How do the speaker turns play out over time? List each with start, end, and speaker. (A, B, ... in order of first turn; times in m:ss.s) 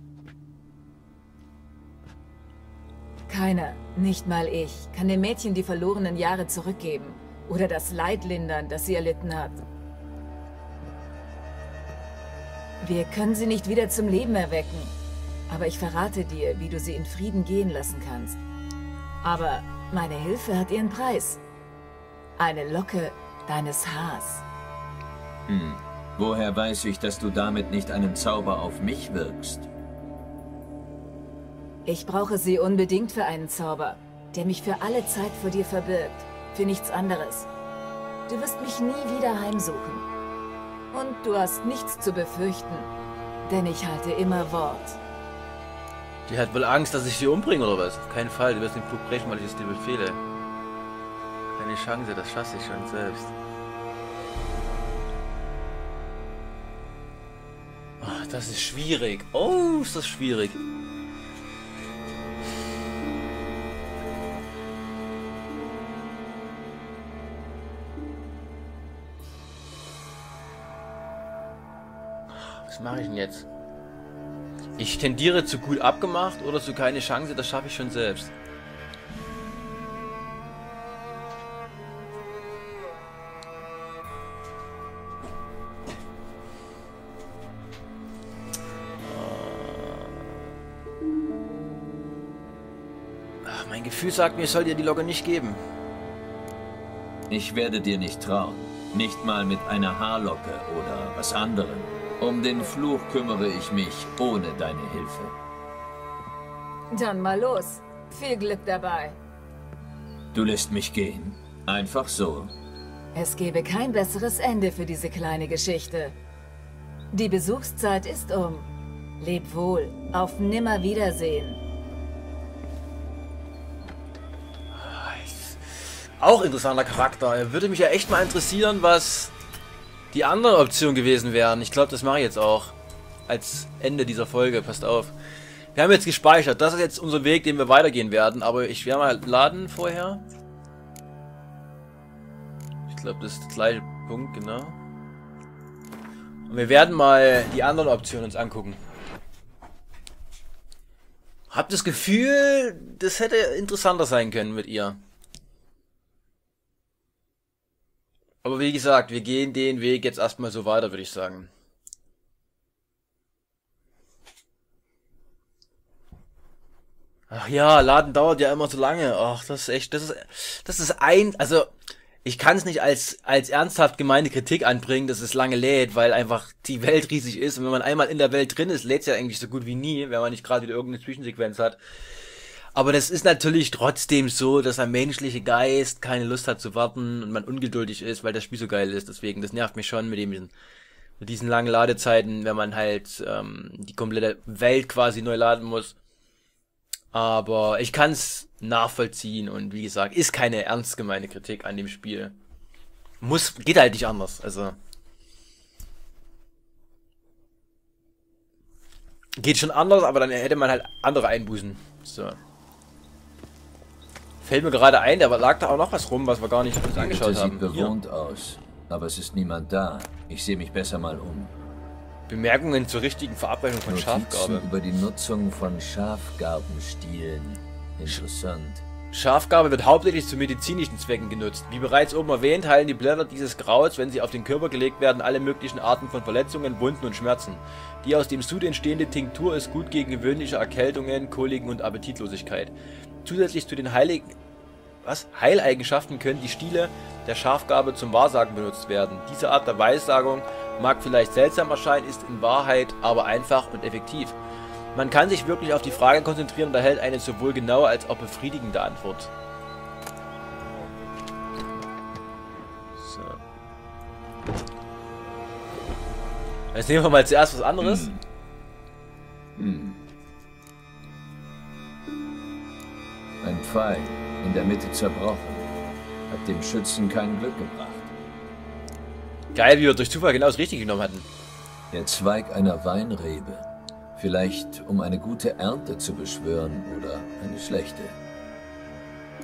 0:03.3-0:09.6 A
0:12.8-0:14.9 A
0:15.5-0:18.4 A
0:19.2-0:21.4 A
0:22.4-0:24.4 A
0:25.5-0:29.7 B
0:31.9-0:37.5 A
0:38.3-0:40.1 A
0:40.9-0:42.9 A
0:43.5-0:45.0 A
0:46.3-0:50.2 C
0:51.6-0:53.3 C
0:58.0-1:00.6 C
1:12.4-1:13.5 C
1:14.8-1:18.3 C
1:29.0-1:30.3 C
1:33.4-1:35.6 C
1:37.3-1:45.4 B
1:46.9-1:49.2 A
1:50.3-1:52.5 B
1:53.2-1:56.2 A
1:57.1-1:58.7 A
1:59.2-2:01.6 A
2:04.7-2:09.3 C
2:10.1-2:12.8 C
2:13.3-2:15.2 C
2:15.8-2:20.2 C
2:22.9-2:24.8 C
2:26.5-2:28.8 C
2:31.5-2:35.0 C
2:38.4-2:41.5 C
2:47.3-2:51.7 C
2:52.2-3:01.8 C
3:02.8-3:10.5 C
3:11.2-3:16.0 C
3:17.1-3:22.4 C
3:23.2-3:24.8 C
3:29.4-3:32.4 C
3:34.4-3:37.9 C
3:36.9-3:41.5 B
3:42.3-3:44.7 C
3:43.9-3:48.8 B
3:49.1-4:04.4 C
4:05.0-4:14.4 C
4:15.0-4:19.3 C
4:23.0-4:23.4 C
4:26.7-4:28.1 C
4:27.8-4:28.2 B
4:29.6-4:30.0 B
4:33.4-4:35.7 B
4:36.3-4:38.1 B
4:39.5-4:41.3 C
4:41.9-4:48.2 B